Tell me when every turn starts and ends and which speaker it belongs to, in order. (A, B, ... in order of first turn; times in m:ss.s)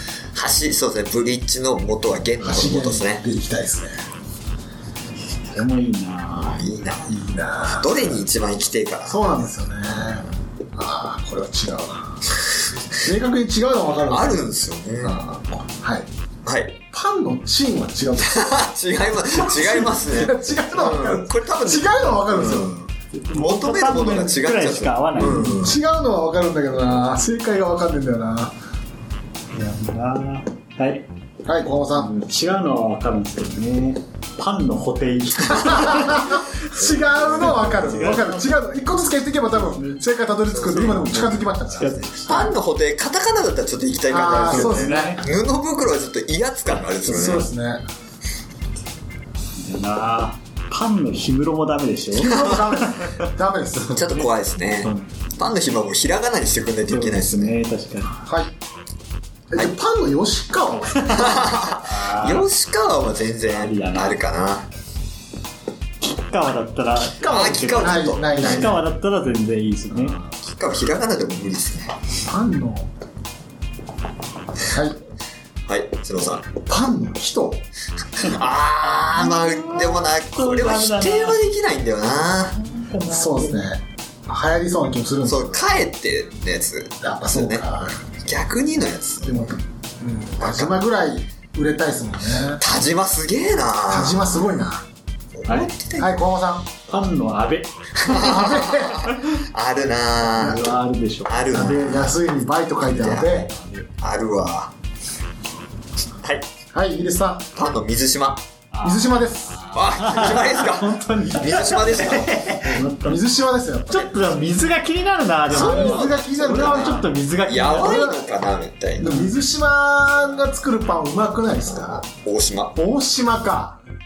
0:00.3-0:03.2 A
0:02.4-0:04.0 B
0:05.5-0:06.6 C
0:06.3-0:09.2 A
0:07.1-0:08.2 B
0:09.1-0:12.2 B
0:13.0-0:14.5 B
0:14.0-0:15.2 A
0:15.0-0:16.1 B
0:16.4-0:16.8 A
0:16.9-0:18.6 B
0:18.2-0:25.7 A
0:19.4-0:22.8 B
0:23.1-0:25.7 C
0:25.4-0:28.5 B
0:29.5-0:31.0 C
0:31.4-0:32.1 B
0:31.9-0:36.6 C
0:35.4-0:42.1 B
0:37.2-0:38.7 C
0:37.5-0:37.8 A
0:39.5-0:40.0 C
0:40.5-0:41.3 A
0:40.6-0:42.6 C
0:41.8-0:47.5 A
0:44.1-0:45.2 B
0:44.5-0:45.3 C
0:47.0-0:47.8 B
0:49.5-0:53.2 C
0:52.2-0:54.0 B
0:53.9-0:57.6 A
0:53.9-0:54.2 C
0:54.8-0:55.1 C
0:56.9-0:58.2 C
0:58.2-0:58.5 B
0:59.5-1:01.5 B
1:01.1-1:04.7 A
1:01.1-1:02.5 C
1:03.5-1:04.2 C
1:06.0-1:10.2 C
1:07.2-1:08.8 A
1:07.2-1:08.8 B
1:10.3-1:12.0 A
1:12.3-1:12.9 B
1:14.6-1:15.0 B
1:15.6-1:16.5 A
1:16.6-1:17.6 B
1:18.2-1:22.5 A
1:19.1-1:21.4 C
1:22.5-1:23.7 C
1:23.1-1:25.6 B
1:25.2-1:27.6 A
1:27.0-1:28.0 B
1:28.2-1:29.5 A
1:29.2-1:32.6 B
1:30.4-1:30.8 A
1:32.6-1:34.4 A
1:33.9-1:34.8 B
1:35.3-1:36.2 A
1:35.5-1:35.7 C
1:36.0-1:36.7 B
1:36.9-1:38.2 C
1:38.0-1:39.1 B
1:38.0-1:40.7 A
1:40.3-1:42.0 C
1:41.2-1:42.2 A
1:41.5-1:43.5 B
1:42.8-1:44.7 A
1:43.3-1:43.9 C
1:46.2-1:46.5 A
1:46.7-1:47.5 B
1:47.5-1:48.4 A
1:48.7-1:53.3 C
1:48.8-1:49.6 B
1:49.7-1:52.8 A
1:53.0-1:54.0 B
1:53.9-1:58.2 C
1:53.9-1:54.4 A
1:55.5-1:59.2 A
1:55.5-1:57.1 B
1:59.0-2:02.0 B
2:01.6-2:02.8 A
2:02.7-2:03.8 B